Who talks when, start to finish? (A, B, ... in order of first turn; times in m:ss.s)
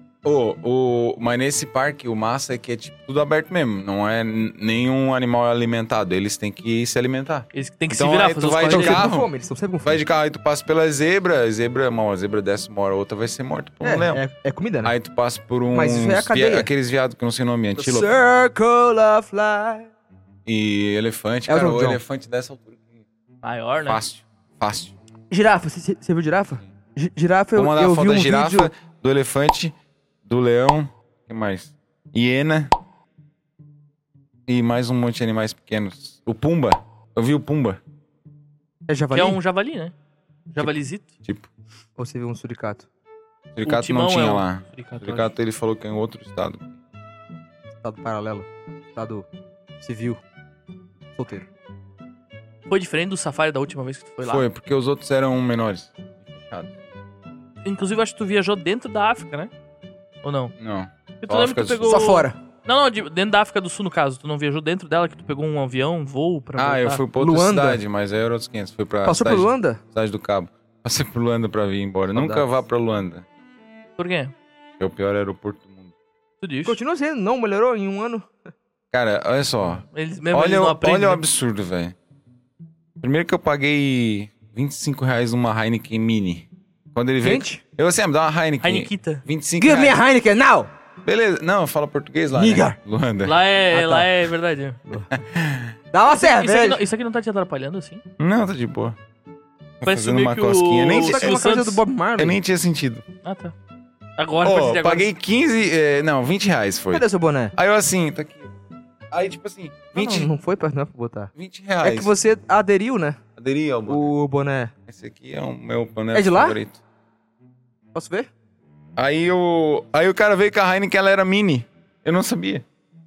0:00.2-0:09.3 A
0:07.5-0:09.1 B
0:08.7-0:10.0 C
0:09.8-0:14.2 A
0:13.8-0:14.9 C
0:14.8-0:18.1 A
0:15.7-0:16.7 C
0:17.8-0:19.9 C
0:20.4-0:23.0 A
0:21.5-0:22.0 C
0:23.4-0:24.0 B
0:23.9-0:24.9 A
0:25.3-0:28.7 C
0:27.6-0:29.7 A
0:30.2-0:32.7 A
0:34.5-0:37.8 A
0:38.9-0:39.4 C
0:39.1-0:39.9 B
0:40.5-0:41.1 B
0:42.0-0:42.9 C
0:43.5-0:46.7 A
0:43.6-0:45.3 B
0:47.7-0:49.2 C
0:49.8-0:50.2 C
0:51.2-0:51.4 C
0:52.7-0:54.4 B
0:54.2-0:56.7 A
0:57.6-0:59.5 B
1:00.2-1:00.5 B
1:00.6-1:02.1 A
1:01.2-1:07.0 B
1:01.8-1:02.4 C
1:06.6-1:13.2 A
1:07.2-1:07.8 C
1:09.0-1:09.8 C
1:12.1-1:12.5 C
1:14.0-1:14.3 B
1:14.8-1:15.9 A
1:16.4-1:16.8 B
1:16.6-1:18.3 C
1:18.9-1:21.9 A
1:19.9-1:21.2 B
1:23.0-1:30.0 A
1:27.2-1:27.6 C
1:28.6-1:29.2 B
1:29.6-1:30.7 C
1:31.0-1:33.4 A
1:32.3-1:32.8 C
1:33.2-1:34.8 B
1:33.7-1:34.1 C
1:35.1-1:35.7 A
1:35.9-1:36.8 C
1:36.1-1:38.0 B
1:38.2-1:39.0 A
1:39.8-1:41.4 A
1:39.8-1:41.8 B
1:40.9-1:42.4 C
1:42.2-1:43.0 A
1:43.2-1:43.5 B
1:44.2-1:45.1 B
1:44.4-1:48.5 A
1:46.9-1:47.5 C
1:49.1-1:50.3 A
1:49.9-1:53.2 C
1:51.4-1:52.1 A
1:53.4-1:54.1 A
1:53.9-1:54.7 C
1:54.9-1:56.8 A
1:56.1-1:56.6 C
1:57.9-1:58.3 C
1:59.0-2:02.6 A